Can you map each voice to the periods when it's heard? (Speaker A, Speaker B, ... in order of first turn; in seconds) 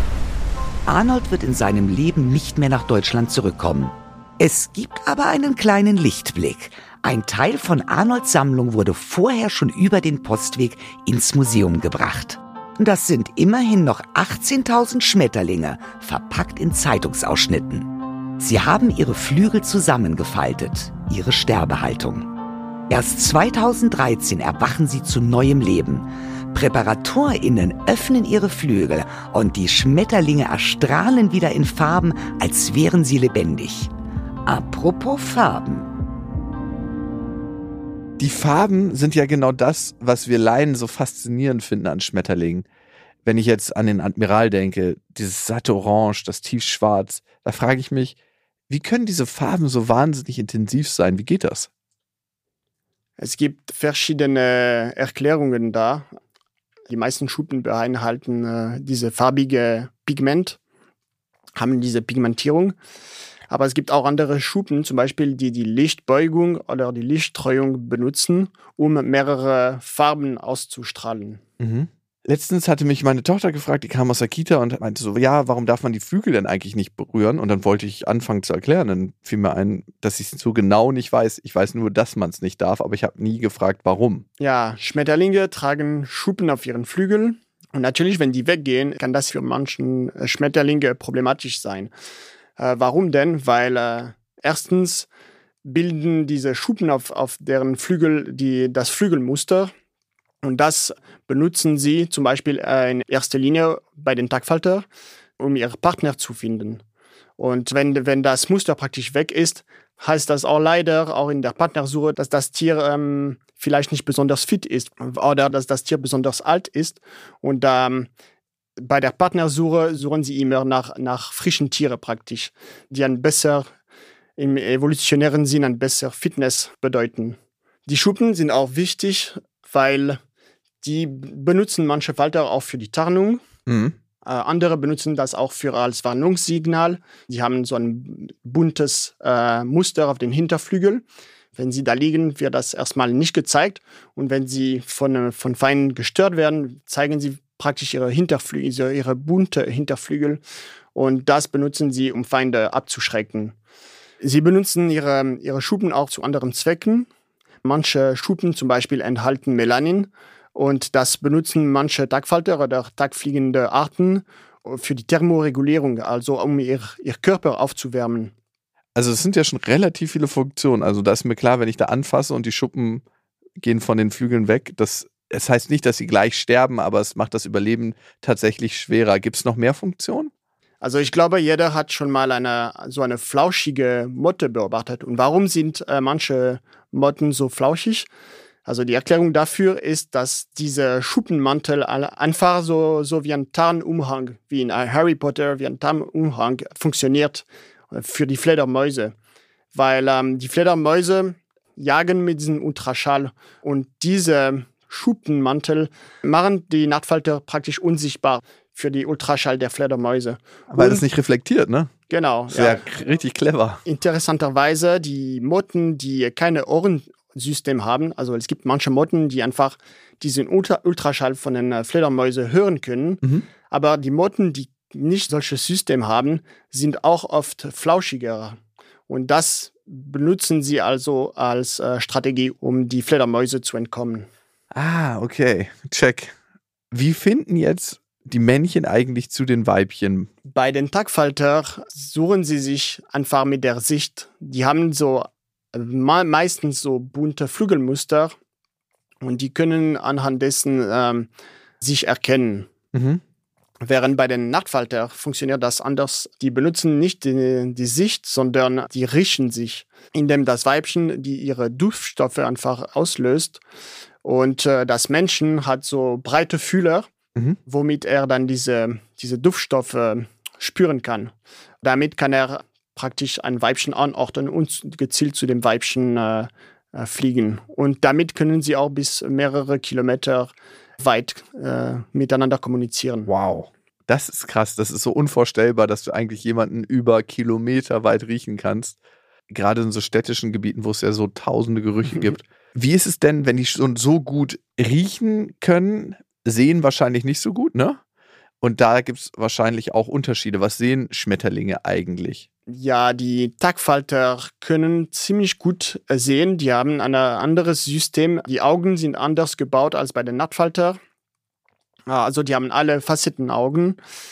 Speaker A: 0.9-22.3, 22.9-33.9, 34.5-35.9
Speaker B: 38.2-42.6, 43.2-48.2, 48.7-51.7, 71.6-84.3, 133.7-133.9, 169.0-173.0, 173.6-180.3, 210.7-211.9, 212.5-213.8, 234.7-236.4, 236.9-240.3, 252.9-253.2, 283.3-289.0, 289.5-298.0, 298.6-302.5
Speaker C: 53.2-56.1, 56.9-60.6, 61.6-62.8, 63.5-71.4, 84.4-91.9, 92.6-95.1, 95.6-99.7, 100.4-104.9, 105.4-106.8, 107.4-118.1, 118.8-123.7, 124.4-130.2, 130.8-133.4, 134.2-141.0, 141.6-150.4, 150.9-153.6, 154.2-157.1, 157.6-168.3, 180.8-188.1, 188.7-199.1, 199.7-211.0, 212.1-212.8, 213.8-234.3, 240.5-248.3, 249.2-251.3, 251.8-252.7, 253.8-263.6, 264.2-267.1, 267.7-283.3, 302.7-311.0, 312.1-314.0